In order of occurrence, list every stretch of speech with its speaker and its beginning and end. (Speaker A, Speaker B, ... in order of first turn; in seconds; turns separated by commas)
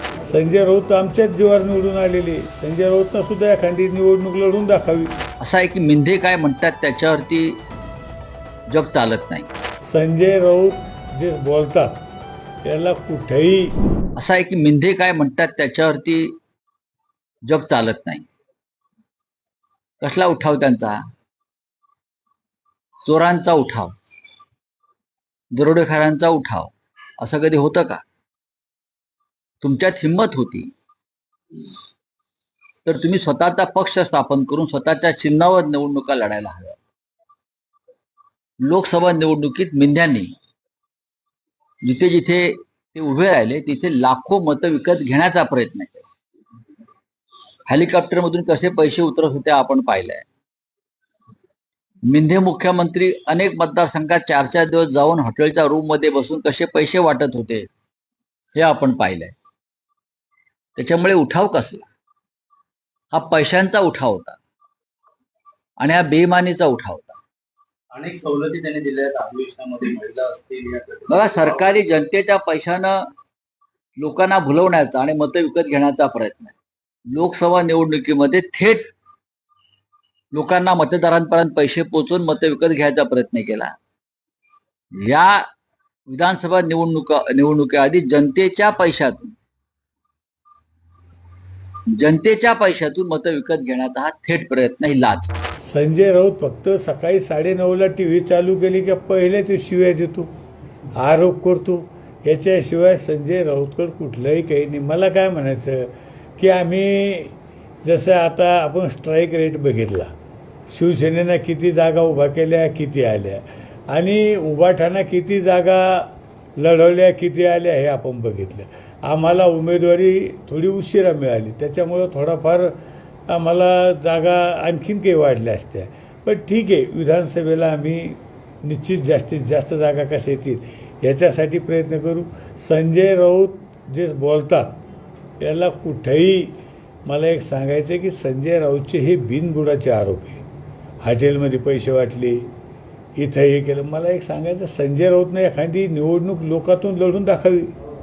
Speaker A: 0.3-5.1, Speaker B: 5.4-7.6, Speaker B: 8.7-9.5, Speaker A: 9.9-12.0, Speaker A: 12.7-13.7, Speaker B: 14.2-16.3, Speaker B: 17.4-18.2, Speaker B: 20.0-21.0, Speaker B: 23.0-23.9, Speaker B: 25.5-28.0, Speaker B: 29.6-30.7, Speaker B: 32.8-36.8, Speaker B: 38.6-40.3, Speaker B: 41.8-46.1, Speaker B: 47.7-50.3, Speaker B: 52.0-57.7, Speaker B: 58.5-59.3, Speaker B: 60.8-61.9, Speaker B: 63.1-64.4, Speaker B: 65.8-67.2, Speaker C: 67.9-71.7, Speaker B: 71.1-73.1, Speaker B: 74.0-76.5, Speaker B: 77.1-78.9, Speaker B: 80.3-83.8, Speaker B: 84.9-85.5, Speaker B: 86.1-89.3, Speaker B: 91.9-95.3, Speaker A: 95.6-100.3, Speaker A: 101.0-110.1, Speaker A: 110.7-122.8, Speaker A: 123.3-134.8, Speaker A: 135.4-136.5, Speaker A: 137.1-140.4, Speaker A: 141.0-142.5, Speaker A: 143.2-147.7